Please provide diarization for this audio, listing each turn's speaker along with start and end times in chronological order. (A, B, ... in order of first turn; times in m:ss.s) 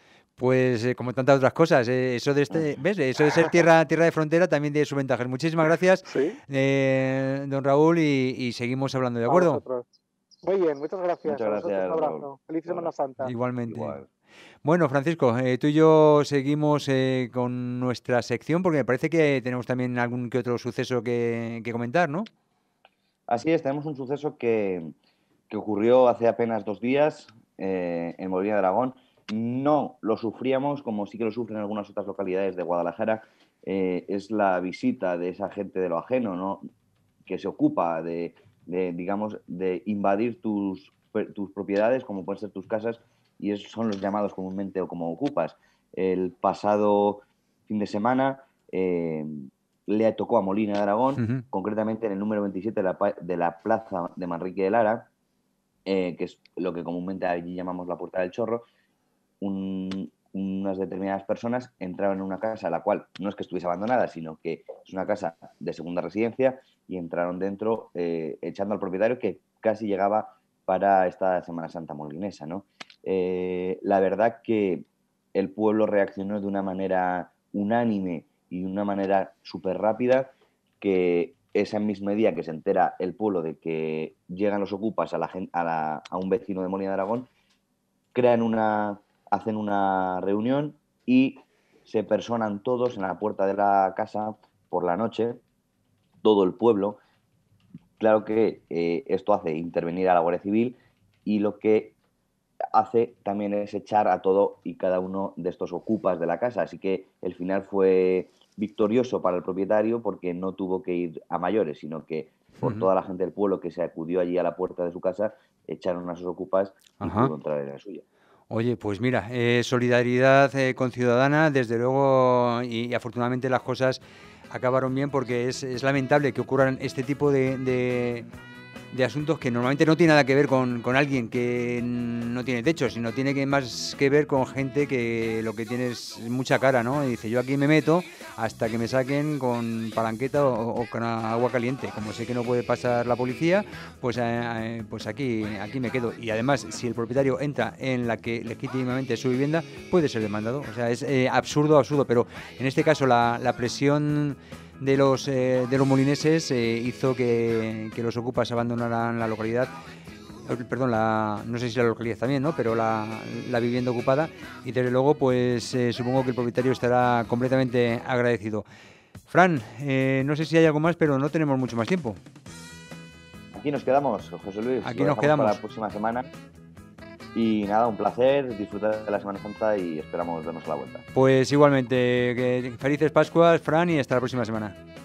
0:00.4-0:09.6 A
0:06.1-0:06.4 B
0:09.3-0:09.8 B
0:10.4-0:13.3 B
0:11.2-0:12.9 C
0:13.2-0:14.0 A
0:13.7-0:14.1 C
0:14.6-0:22.3 A
0:23.3-0:24.9 C
0:25.5-0:36.6 C
0:37.2-0:55.1 C
0:51.2-0:51.4 A
0:55.8-0:58.6 C
0:59.4-1:27.3 C
1:28.1-1:35.4 C
1:36.2-1:37.0 C
1:38.0-1:42.0 C
1:42.7-1:58.0 C
1:52.6-1:52.9 A
1:57.0-1:57.3 A
1:58.5-2:08.3 A
2:08.9-2:39.7 A
2:40.4-2:48.6 A
2:49.3-2:52.2 A
2:53.5-2:56.3 C
2:54.8-2:55.6 A
2:57.3-3:01.0 C
3:01.1-3:04.8 A